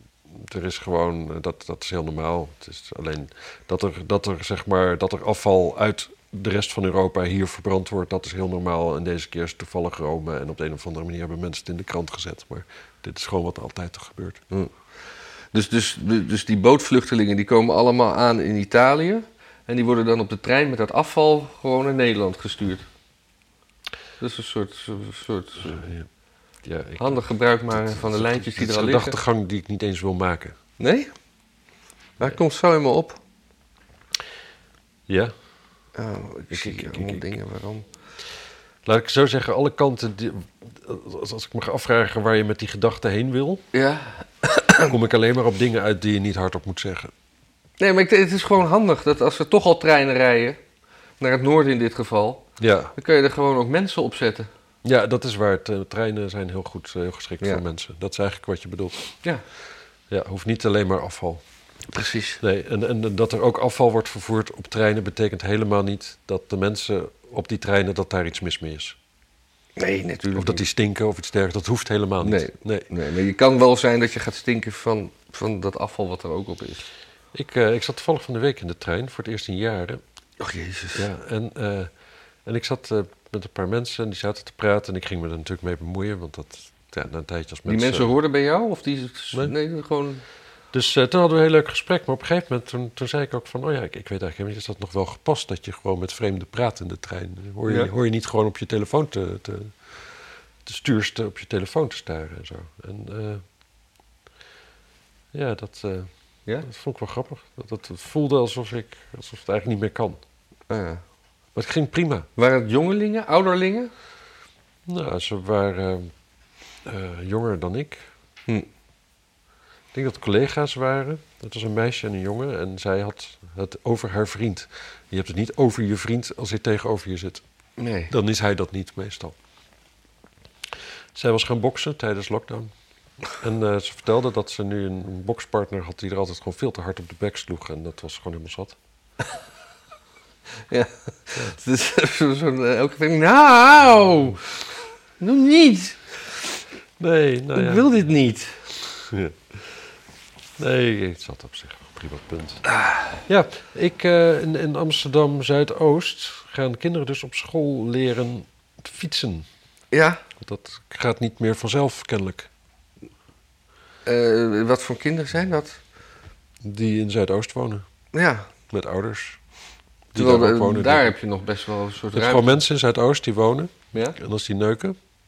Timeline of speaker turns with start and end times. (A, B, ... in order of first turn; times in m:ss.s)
0:00.3-0:14.4 A
0:15.5-0:22.8 B
0:24.2-0:25.8 B
0:25.6-0:26.1 A
0:26.6-0:30.6 A
0:27.0-0:29.2 B
0:30.8-0:31.1 B
0:32.2-0:33.2 B
0:35.1-0:35.3 A
0:36.0-0:37.8 B
0:36.5-0:37.3 A
0:38.8-0:43.6 A
0:43.7-0:44.9 B
0:44.8-0:47.1 A
0:47.8-0:50.6 B
0:51.2-0:54.5 B
0:52.6-0:52.9 A
0:54.8-0:59.1 A
1:00.1-1:01.4 A
1:01.9-1:02.4 B
1:02.4-1:09.0 A
1:09.8-1:10.6 B
1:10.3-1:12.9 A
1:12.2-1:16.9 B
1:17.3-1:20.0 A
1:20.4-1:21.1 B
1:20.9-1:21.9 A
1:22.4-1:28.1 A
1:27.6-1:30.2 B
1:30.7-1:40.0 A
1:37.6-1:37.9 B
1:40.6-1:43.4 A
1:45.3-1:46.1 A
1:46.6-1:50.2 A
1:50.7-1:51.0 B
1:51.5-1:52.3 A
1:52.4-1:53.9 B
1:54.8-1:56.1 A
1:56.8-1:58.0 A
1:59.9-2:07.4 A
2:07.8-2:08.1 B
2:08.1-2:09.3 A
2:11.1-2:12.7 A
2:13.4-2:18.8 A
2:20.7-2:24.4 B
2:25.2-2:26.2 B
2:27.0-2:27.8 A
2:27.5-2:28.6 B
2:29.0-2:29.6 A
2:30.6-2:32.6 A
2:33.3-2:39.5 A
2:39.9-2:40.2 B
2:40.4-2:42.5 A
2:44.0-2:45.8 B
2:46.6-2:47.8 A
2:48.1-2:48.5 B
2:48.7-2:49.4 A
2:50.1-2:51.1 A
2:50.1-2:52.6 B
2:52.1-2:55.0 A